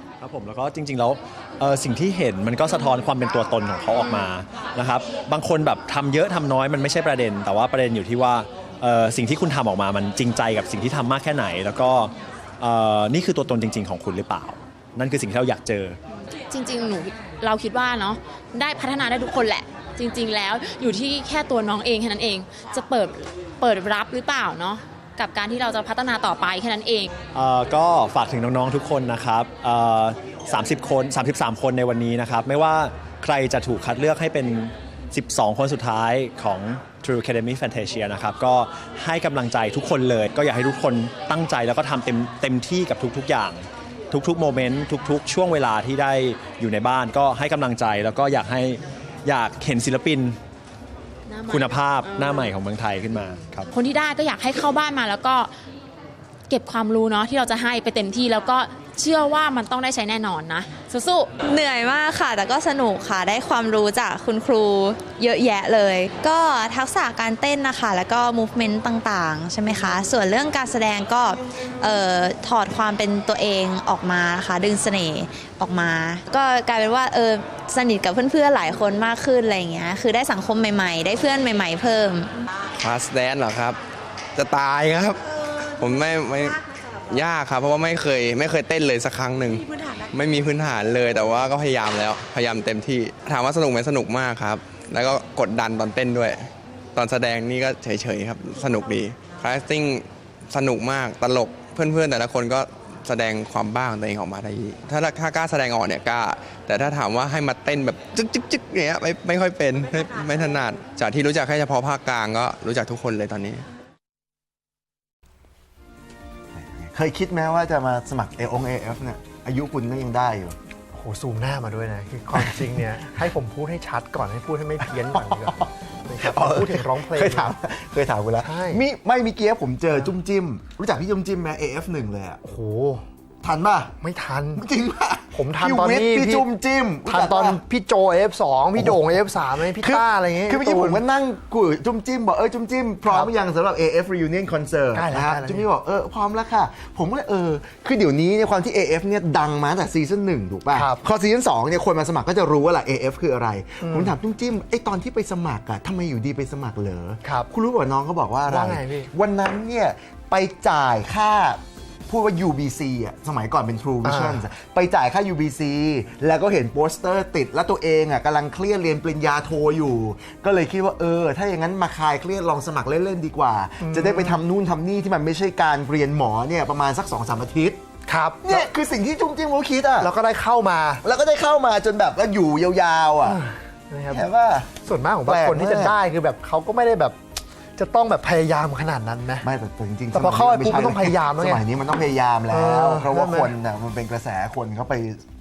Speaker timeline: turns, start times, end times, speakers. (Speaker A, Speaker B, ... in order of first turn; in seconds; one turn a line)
Speaker A: 0.2-16.0
Speaker B: 4.0-4.4
Speaker B: 16.5-27.1
Speaker A: 27.3-50.4
Speaker B: 51.3-52.5
Speaker A: 51.5-53.7
Speaker B: 53.7-55.5
Speaker B: 56.5-61.3
Speaker C: 61.5-82.3
Speaker D: 82.8-83.8
Speaker D: 84.4-85.2
Speaker D: 85.8-96.4
Speaker D: 97.0-113.7
Speaker E: 116.6-120.6
Speaker F: 120.9-127.5
Speaker E: 122.3-122.7
Speaker E: 125.0-132.4
Speaker F: 128.4-128.8
Speaker F: 132.4-133.0
Speaker E: 133.4-133.9
Speaker F: 134.0-134.6
Speaker E: 134.6-137.6
Speaker F: 135.3-136.5
Speaker F: 137.1-141.0
Speaker E: 138.8-177.8
Speaker F: 144.9-145.7
Speaker F: 150.7-151.0
Speaker F: 153.8-154.1
Speaker F: 158.5-159.1
Speaker F: 164.0-164.4
Speaker F: 173.8-174.4
Speaker F: 178.1-178.6
Speaker E: 178.4-180.1
Speaker F: 180.0-181.0
Speaker E: 181.0-183.4
Speaker F: 183.2-187.2
Speaker E: 184.1-184.7
Speaker E: 185.3-185.9
Speaker F: 187.8-189.5
Speaker E: 189.4-195.2
Speaker F: 190.1-191.6
Speaker F: 192.5-193.5